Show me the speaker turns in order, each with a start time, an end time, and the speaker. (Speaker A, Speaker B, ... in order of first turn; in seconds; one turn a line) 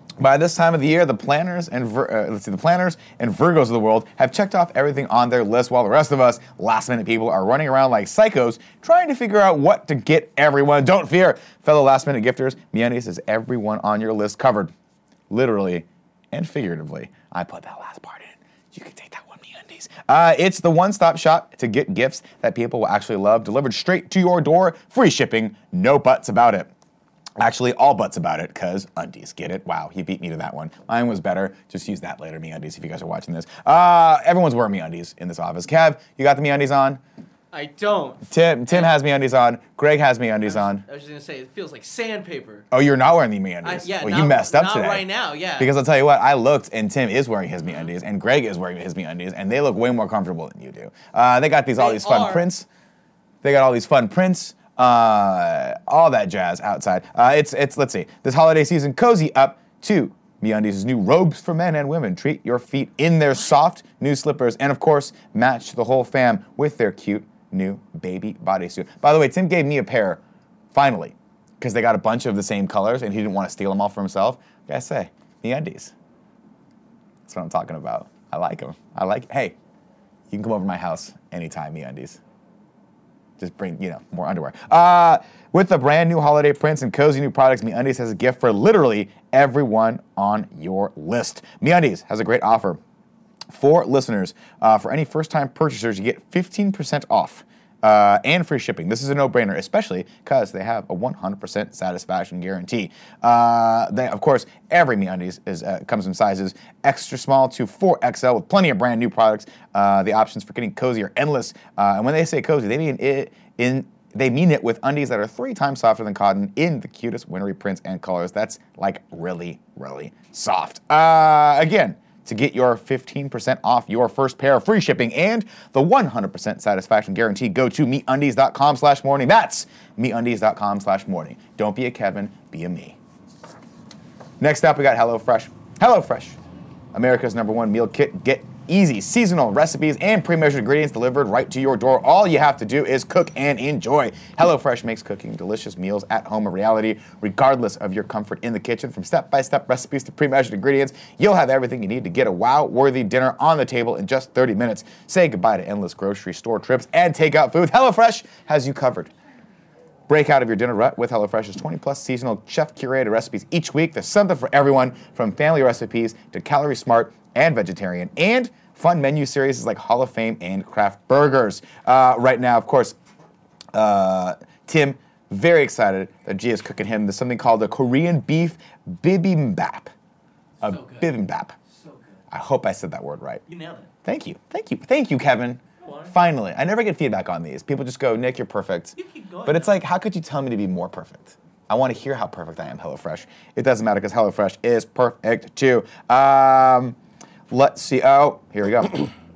Speaker A: 0.2-14.7
Speaker A: 15.3-26.7
Speaker A: 27.4-37.0
Speaker B: 37.5-38.9
Speaker A: 38.3-40.8
Speaker B: 40.5-42.7
Speaker A: 42.7-45.1
Speaker B: 43.6-45.7
Speaker A: 45.6-52.7
Speaker B: 51.8-52.5
Speaker A: 53.4-70.2
Speaker A: 70.7-75.9
Speaker A: 77.2-79.6
Speaker A: 80.3-82.2
Speaker A: 83.4-92.8
Speaker A: 93.5-133.0
Speaker A: 134.4-136.4
Speaker A: 136.9-159.1
Speaker A: 160.1-173.0
Speaker A: 173.7-179.9
Speaker B: 180.6-181.1
Speaker A: 180.6-181.6
Speaker B: 181.7-182.2
Speaker A: 182.3-183.4
Speaker B: 183.5-183.9
Speaker A: 184.0-197.0
Speaker B: 185.8-186.1
Speaker B: 189.0-189.8
Speaker A: 197.5-199.1